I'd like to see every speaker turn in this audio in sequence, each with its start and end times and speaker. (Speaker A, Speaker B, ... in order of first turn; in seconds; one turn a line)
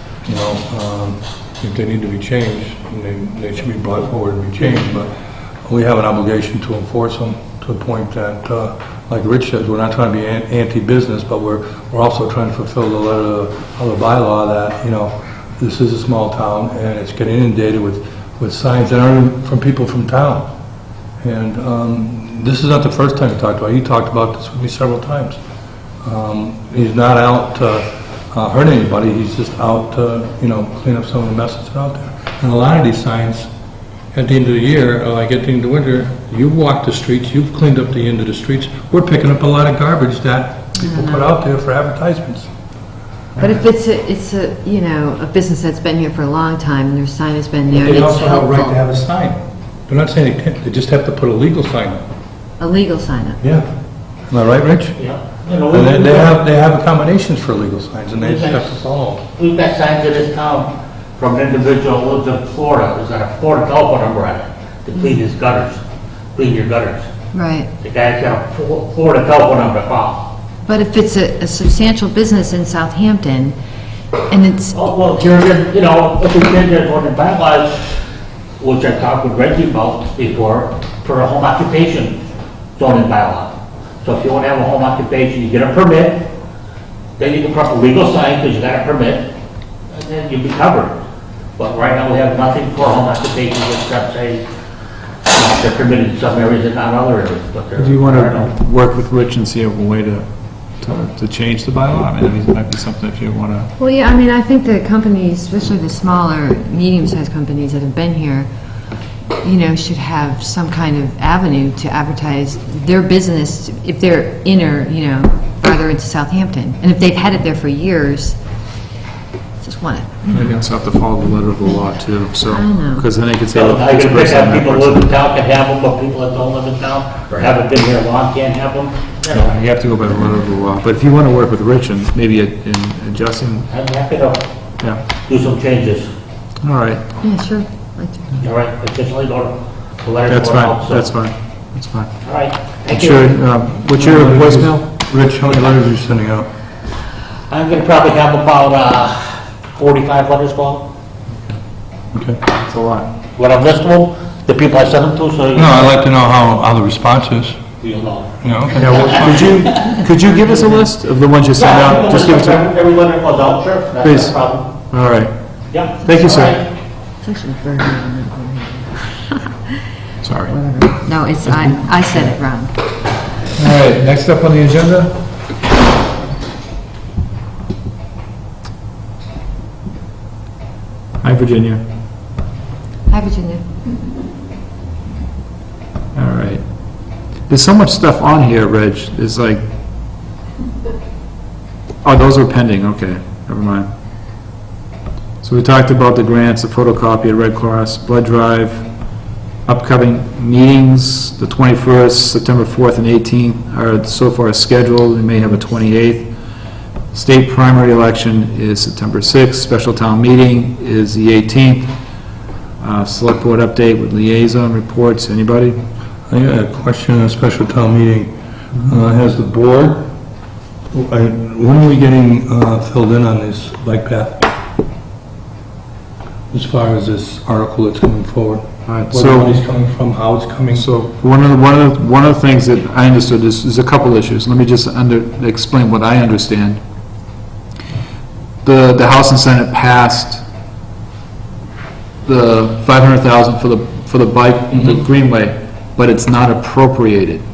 Speaker A: 0.2-5.1
Speaker A: 5.6-20.5
Speaker A: 21.2-25.4
Speaker A: 26.0-33.5
Speaker A: 34.1-42.5
Speaker B: 40.8-41.0
Speaker B: 43.4-48.8
Speaker A: 47.7-52.0
Speaker B: 52.6-53.4
Speaker A: 53.4-53.7
Speaker A: 54.3-55.0
Speaker C: 55.0-56.3
Speaker A: 55.7-59.2
Speaker C: 58.2-58.7
Speaker C: 59.4-65.8
Speaker C: 66.3-67.1
Speaker B: 67.3-67.7
Speaker C: 67.8-70.3
Speaker B: 70.7-73.6
Speaker B: 74.3-74.8
Speaker C: 74.7-78.0
Speaker C: 78.6-82.2
Speaker C: 82.8-86.3
Speaker C: 87.2-89.3
Speaker C: 89.9-91.0
Speaker C: 91.6-94.4
Speaker C: 95.2-98.5
Speaker D: 97.8-100.3
Speaker D: 100.8-103.7
Speaker B: 103.8-108.5
Speaker B: 109.4-118.4
Speaker B: 119.6-120.3
Speaker D: 120.3-125.0
Speaker B: 122.5-123.0
Speaker C: 123.5-129.5
Speaker D: 129.3-133.7
Speaker C: 133.7-134.4
Speaker C: 135.2-136.1
Speaker D: 136.6-137.0
Speaker B: 137.2-138.3
Speaker C: 138.4-141.1
Speaker D: 140.3-142.1
Speaker C: 142.2-143.4
Speaker D: 142.9-144.8
Speaker A: 143.8-146.5
Speaker C: 147.5-150.8
Speaker A: 152.1-152.4
Speaker D: 152.6-153.1
Speaker C: 153.3-155.9
Speaker A: 155.5-157.6
Speaker C: 157.8-159.9
Speaker A: 158.4-159.6
Speaker D: 158.8-162.7
Speaker B: 160.3-160.6
Speaker C: 161.6-164.7
Speaker D: 164.0-164.3
Speaker D: 164.9-165.3
Speaker C: 165.7-166.6
Speaker D: 166.0-166.5
Speaker B: 167.2-169.8
Speaker D: 170.2-170.5
Speaker B: 170.4-172.7
Speaker D: 173.5-175.2
Speaker D: 181.2-181.8
Speaker B: 183.1-183.6
Speaker D: 186.1-186.6
Speaker D: 187.5-189.6
Speaker D: 192.0-193.9
Speaker D: 195.4-198.8
Speaker D: 199.7-206.3
Speaker D: 207.1-211.9
Speaker D: 212.8-215.8
Speaker A: 216.3-220.1
Speaker A: 220.9-224.5
Speaker A: 226.5-230.9
Speaker D: 228.9-229.6
Speaker D: 230.7-236.8
Speaker D: 238.6-240.4
Speaker D: 242.2-247.4
Speaker A: 244.7-245.0